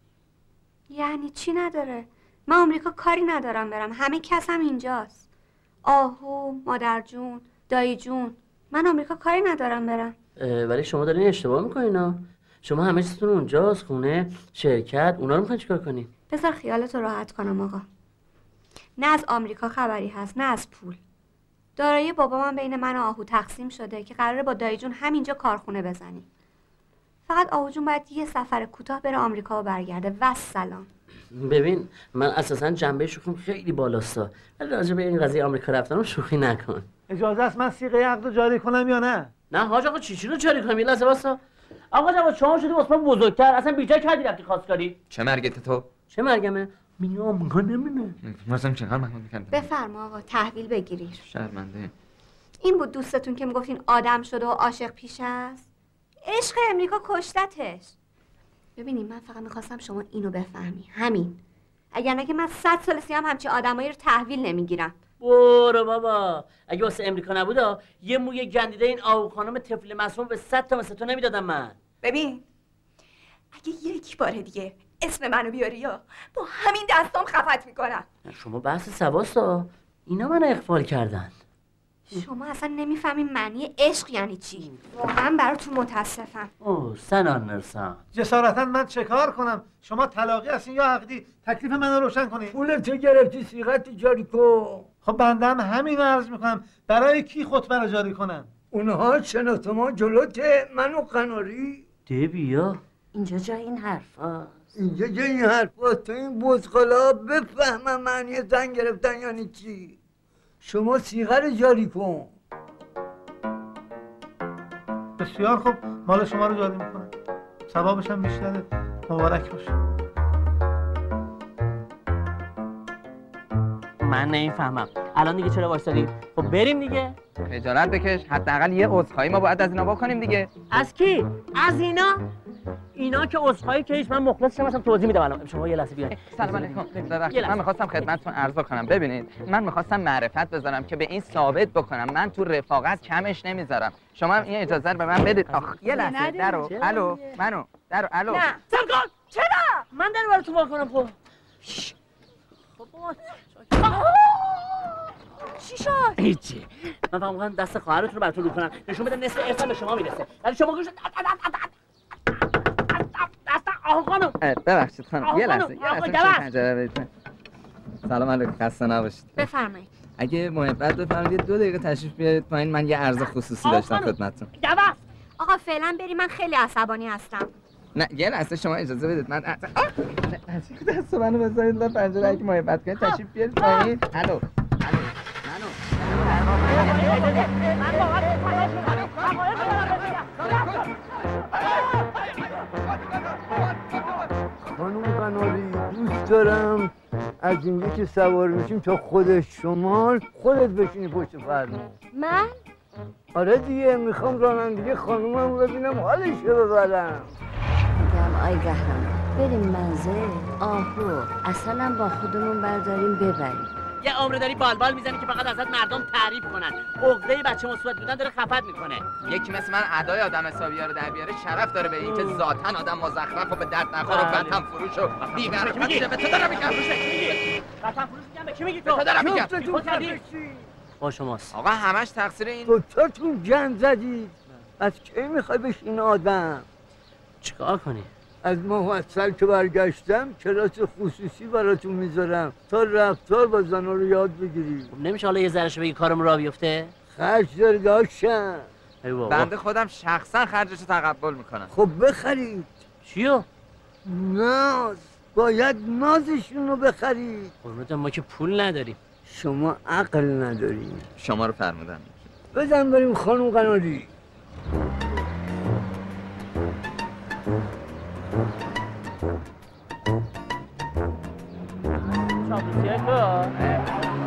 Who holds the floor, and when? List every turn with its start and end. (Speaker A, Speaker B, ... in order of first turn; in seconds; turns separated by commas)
Speaker A: 0.9-5.2, Speaker A: 5.8-10.1, Speaker B: 10.4-16.1, Speaker A: 16.3-17.8, Speaker A: 19.0-21.0, Speaker A: 21.8-26.3, Speaker A: 27.3-30.9, Speaker B: 31.3-36.9, Speaker C: 37.1-39.3, Speaker B: 39.5-41.4, Speaker B: 41.9-45.0, Speaker D: 45.1-45.9, Speaker B: 46.1-48.1, Speaker D: 48.2-49.7, Speaker A: 49.5-51.2, Speaker D: 51.2-51.9, Speaker A: 52.6-55.7, Speaker A: 56.2-57.9, Speaker A: 58.8-61.4, Speaker A: 61.9-65.0, Speaker B: 65.2-71.8, Speaker E: 72.0-72.4, Speaker E: 73.5-78.1, Speaker B: 78.2-81.3, Speaker A: 82.1-86.5, Speaker B: 86.6-88.0, Speaker C: 88.1-92.5, Speaker F: 92.5-94.9, Speaker C: 95.0-98.5, Speaker F: 98.7-101.8, Speaker B: 102.1-102.8, Speaker G: 103.1-104.1, Speaker F: 104.8-110.0, Speaker F: 110.6-112.3, Speaker C: 115.2-117.1, Speaker C: 117.7-119.7, Speaker B: 124.0-127.2, Speaker D: 127.5-130.5, Speaker B: 130.7-132.2, Speaker B: 132.9-137.6, Speaker D: 136.2-148.5, Speaker B: 145.5-147.2, Speaker B: 148.7-149.1, Speaker B: 149.9-151.1, Speaker B: 152.8-154.0, Speaker B: 156.2-161.7, Speaker B: 162.9-164.3, Speaker D: 164.4-167.1, Speaker B: 165.2-166.5, Speaker D: 168.1-169.4, Speaker A: 169.4-169.9, Speaker D: 170.2-174.5, Speaker B: 173.6-175.0, Speaker A: 175.4-177.5, Speaker D: 177.9-184.4, Speaker B: 186.6-190.9, Speaker F: 194.7-201.9, Speaker G: 202.1-202.6, Speaker F: 203.3-207.3, Speaker G: 207.9-213.7, Speaker B: 214.0-219.1, Speaker D: 219.2-227.4, Speaker B: 222.0-222.4, Speaker B: 224.0-224.6, Speaker B: 225.2-230.2, Speaker D: 228.8-229.6, Speaker F: 229.1-230.7, Speaker B: 231.0-231.5, Speaker D: 231.5-232.8, Speaker F: 232.7-236.6, Speaker B: 237.4-238.1, Speaker F: 238.4-244.9, Speaker B: 244.9-246.9, Speaker F: 247.1-248.7, Speaker B: 249.0-249.5, Speaker D: 249.3-251.7, Speaker F: 251.7-252.7, Speaker B: 253.0-253.4, Speaker F: 254.1-257.5, Speaker B: 257.6-259.0, Speaker F: 259.2-261.0, Speaker D: 261.2-262.3, Speaker F: 262.5-264.1, Speaker B: 272.1-273.6